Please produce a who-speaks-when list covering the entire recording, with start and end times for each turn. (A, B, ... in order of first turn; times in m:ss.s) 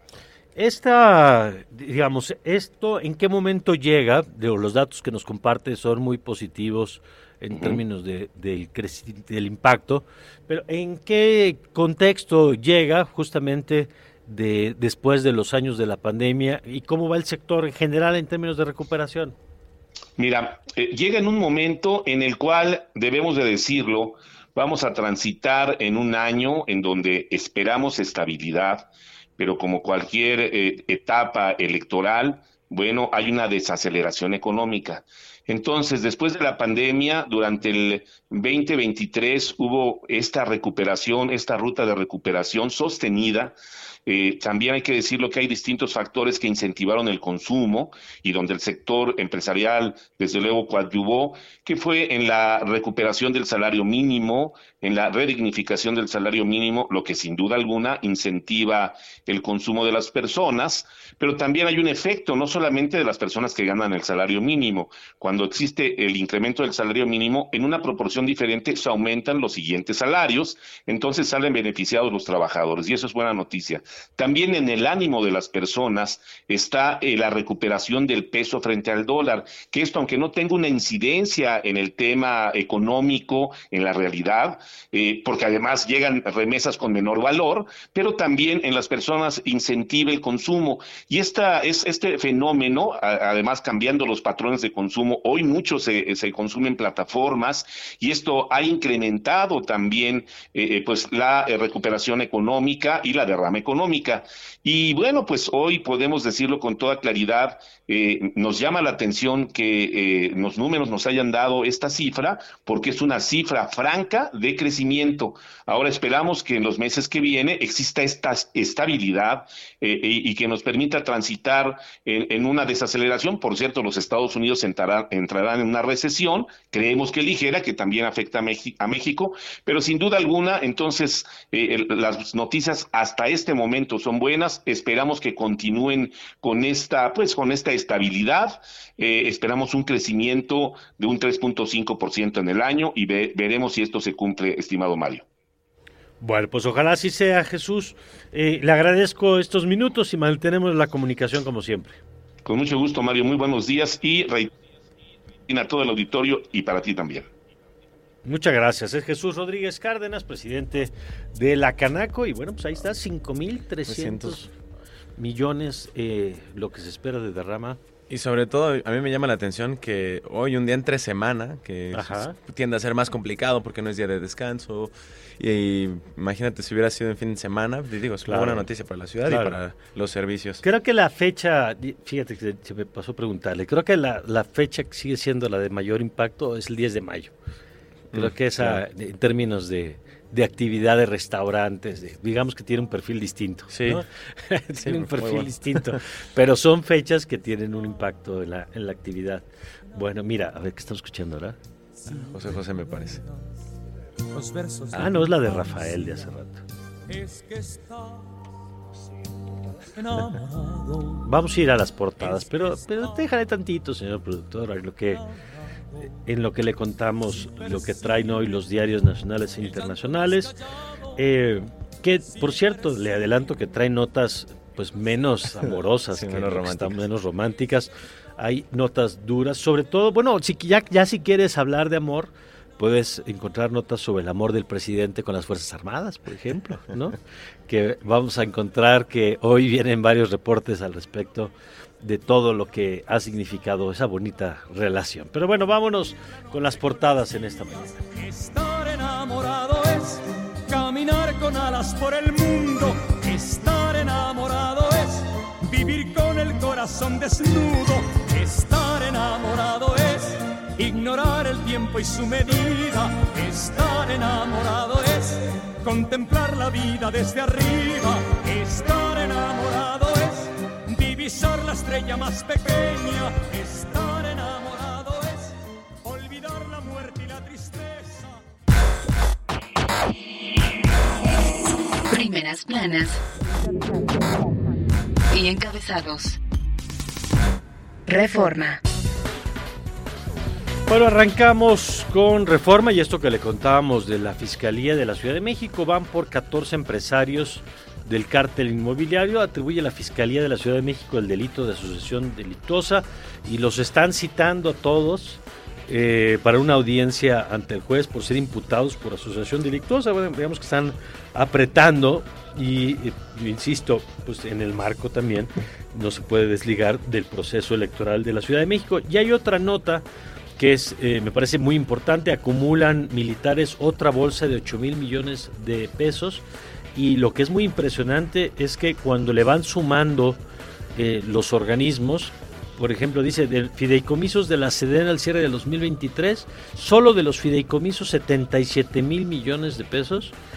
0:00.6-0:19.4 A
0:07.5-0:07.8 B
0:20.2-0:43.6 B
0:44.1-2:25.2 B
2:26.2-2:32.0 A
2:32.4-2:34.5 B
2:35.5-2:37.3 B
2:38.2-2:44.5 A
2:43.9-2:44.5 C
2:45.2-2:47.8 A
2:48.1-3:00.6 C
2:51.9-2:52.4 A
2:58.3-2:58.7 A
2:59.2-2:59.6 A
3:00.6-3:07.3 A
3:08.1-3:08.8 C
3:08.1-3:21.6 A
3:13.7-3:14.0 C
3:14.8-3:16.0 C
3:22.1-3:23.2 D
3:22.2-3:23.2 C
3:24.3-3:25.6 D
3:24.9-3:26.6 A
3:27.1-3:28.2 D
3:29.9-3:31.2 D
3:31.2-3:35.2 A
3:32.4-3:32.7 D
3:36.2-3:40.5 A
3:37.8-3:38.1 D
3:39.6-3:40.6 D
3:41.2-4:08.0 A
3:42.3-3:43.0 D
3:45.7-3:47.0 C
4:08.1-4:38.4 D
4:42.1-4:43.2 E
4:45.3-4:46.4 E
4:48.1-4:48.8 E
4:50.9-5:20.0 A
5:20.6-5:26.4 A
5:27.0-5:30.4 A
5:31.0-5:40.3 A